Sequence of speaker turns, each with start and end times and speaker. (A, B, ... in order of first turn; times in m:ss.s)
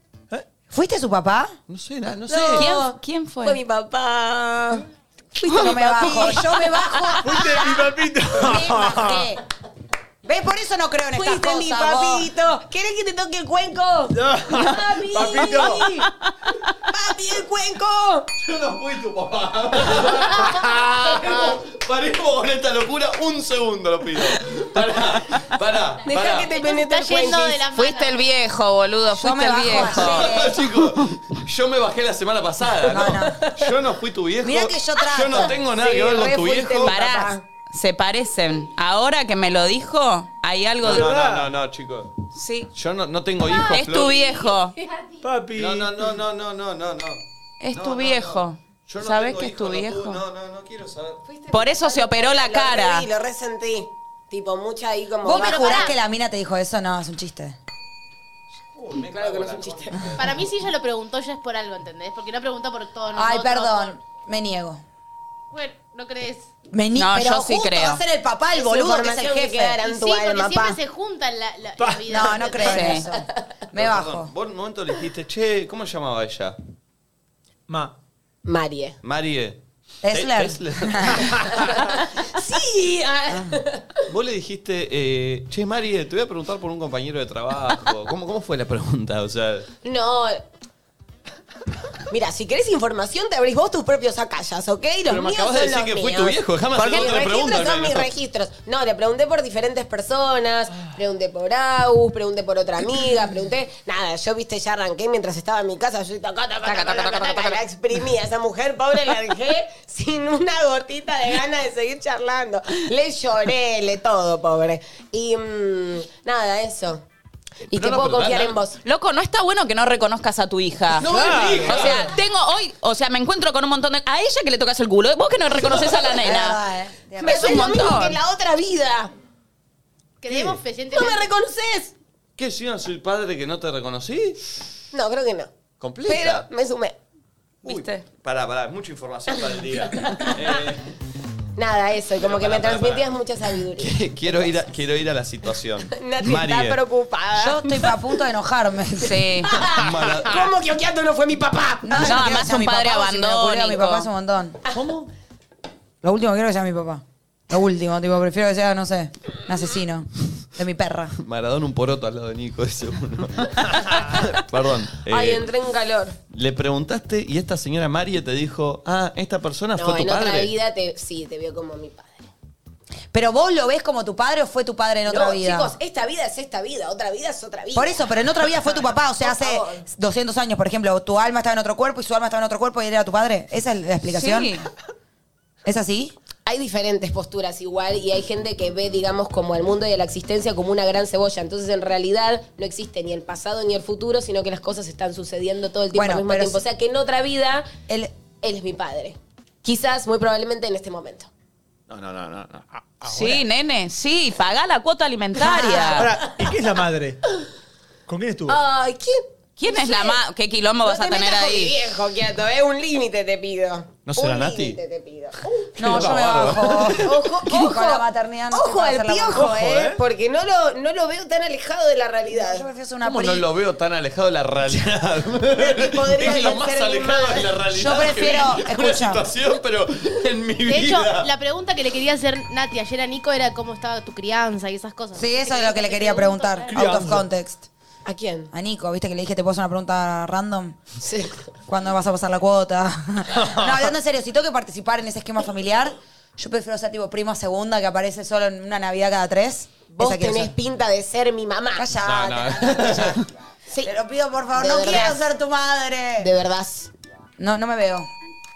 0:00.7-0:01.5 A
0:01.7-0:02.7 B
0:02.3-0:04.8 C
0:02.6-0:03.6 D
0:05.4-0:07.4 C
0:05.5-0:07.7 A
0:07.2-0:09.3 E
0:08.3-0:09.4 A
0:10.2-0:12.3 A
0:11.1-0:16.1 C
0:14.1-0:16.0 E
0:16.9-0:18.3 C
0:18.4-0:26.5 B
0:26.1-0:27.6 C
0:26.5-0:28.3 F
0:27.7-0:30.3 D
0:29.1-0:30.6 A
0:29.8-0:37.0 B
0:32.9-0:33.5 A
0:32.9-0:33.6 C
0:34.4-0:35.6 A
0:35.3-0:37.4 C
0:36.8-0:41.1 D
0:40.8-0:41.5 E
0:40.8-0:42.2 B
0:42.3-0:42.7 D
0:42.7-0:44.2 B
0:43.6-0:44.8 D
0:44.9-0:45.2 F
0:45.2-0:46.1 E
0:45.6-0:51.2 B
0:47.6-0:50.2 D
0:51.3-0:55.9 C
0:51.5-0:53.1 D
0:55.2-0:57.6 A
0:55.4-0:56.0 F
0:58.8-1:00.6 B
0:59.0-1:00.2 C
1:00.2-1:04.0 F
1:03.1-1:04.8 A
1:05.5-1:06.5 F
1:06.7-1:09.8 A
1:07.0-1:08.0 D
1:08.6-1:10.8 C
1:09.8-1:13.0 F
1:11.8-1:12.1 E
1:12.1-1:14.3 A
1:12.6-1:13.1 D
1:13.7-1:16.6 B
1:17.7-1:17.9 E
1:18.4-1:19.0 C
1:19.0-1:21.5 B
1:20.0-1:21.3 A
1:21.8-1:24.0 C
1:23.3-1:23.6 A
1:24.1-1:29.7 B
1:29.8-1:30.4 C
1:32.1-1:57.0 C
1:35.1-1:38.1 B
1:46.6-1:47.6 D
1:57.7-1:58.8 C
1:57.7-1:58.6 B
1:58.8-2:06.6 D
2:01.0-2:02.1 B
2:01.0-2:02.0 E
2:06.2-2:07.9 A
2:07.2-2:09.1 C
2:07.2-2:08.2 D
2:10.2-2:11.3 F
2:10.3-2:11.9 C
2:12.4-2:14.4 B
2:14.9-2:15.5 C
2:15.8-2:16.5 B
2:16.1-2:17.0 C
2:17.6-2:18.0 D
2:17.6-2:20.9 B
2:21.6-2:24.6 C
2:22.2-2:23.1 B
2:23.8-2:26.8 B
2:25.9-2:28.0 C
2:27.4-2:29.5 A
2:29.0-2:29.5 D
2:29.4-2:32.2 C
2:29.8-2:30.5 B
2:31.8-2:34.6 A
2:32.0-2:34.1 D
2:34.7-2:35.1 B
2:36.0-2:41.2 A
2:41.2-2:45.5 B
2:45.1-2:46.2 C
2:46.3-2:50.5 B
2:49.8-2:52.3 C
2:53.1-2:55.8 A
2:55.1-2:58.0 C
2:57.7-3:04.6 A
2:59.2-2:59.8 C
3:04.1-3:04.7 D
3:05.6-3:06.2 A
3:06.5-3:17.7 C
3:15.9-3:16.6 A
3:17.9-3:18.1 A
3:18.4-3:21.3 C
3:21.9-3:22.8 B
3:23.0-3:26.1 D
3:23.1-3:23.4 E
3:25.4-3:26.0 A
3:25.9-3:27.2 E
3:28.1-3:28.6 E
3:28.5-3:30.2 C
3:29.6-3:31.8 D
3:30.8-3:36.1 C
3:34.1-3:34.8 B
3:35.8-3:40.0 A
3:35.8-3:37.1 B
3:36.9-3:42.7 C
3:39.4-3:40.0 E
3:42.3-3:43.5 A
3:43.0-3:51.3 B
3:45.6-3:47.5 C
3:46.2-3:49.2 A
3:50.6-3:57.0 F
3:55.1-3:57.7 A
3:56.7-3:57.2 E
3:58.1-3:58.5 C
3:58.5-4:00.8 A
4:01.0-4:01.4 C
4:01.7-4:10.5 A
4:09.9-4:11.9 C
4:11.8-4:13.2 A
4:12.0-4:13.2 B
4:13.8-4:16.3 A
4:14.6-4:15.2 C
4:16.2-4:16.9 C
4:17.4-4:18.1 A